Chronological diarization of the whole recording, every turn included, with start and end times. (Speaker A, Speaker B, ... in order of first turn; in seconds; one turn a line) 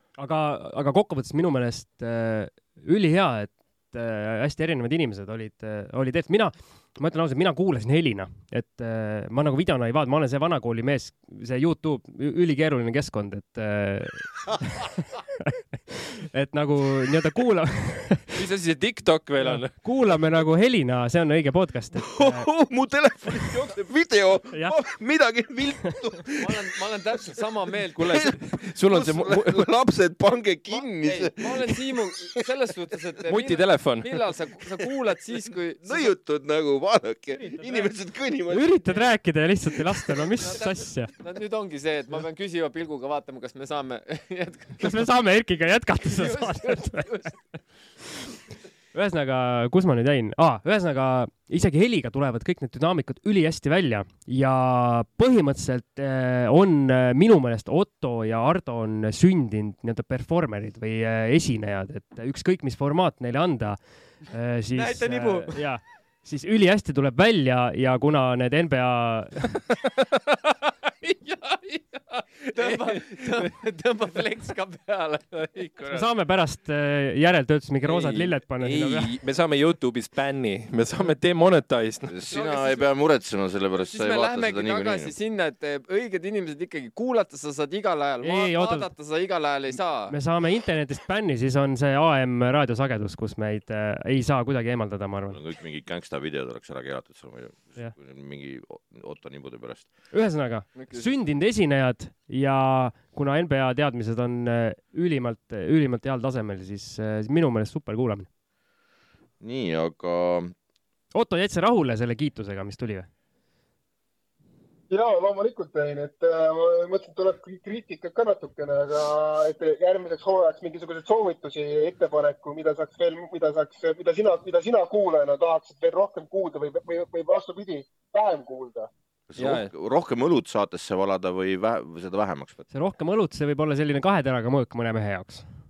Speaker A: 0.2-18.4
Speaker B: 18.4-19.8
Speaker A: 19.4-22.5
Speaker C: 21.9-26.8
Speaker A: 24.5-24.8
Speaker D: 26.4-28.3
Speaker B: 28.0-29.6
Speaker C: 28.0-32.4
Speaker D: 31.0-36.1
Speaker B: 33.3-34.2
Speaker C: 35.8-38.9
Speaker A: 38.5-41.1
Speaker D: 40.4-45.0
Speaker A: 44.8-47.3
Speaker D: 46.0-47.4
Speaker A: 48.9-69.6
Speaker D: 64.8-65.7
Speaker B: 69.7-73.5
Speaker D: 72.5-75.7
Speaker B: 75.3-76.0
Speaker A: 75.9-79.1
Speaker B: 77.8-82.2
Speaker C: 82.1-85.2
Speaker D: 82.3-82.9
Speaker D: 83.8-90.2
Speaker A: 88.2-88.9
Speaker A: 90.1-95.4
Speaker C: 95.3-99.9
Speaker A: 100.1-108.3
Speaker D: 100.8-101.2
Speaker C: 109.4-110.5
Speaker A: 111.1-113.1
Speaker E: 114.9-128.9
Speaker C: 129.3-132.7
Speaker B: 129.4-129.7
Speaker A: 132.7-135.5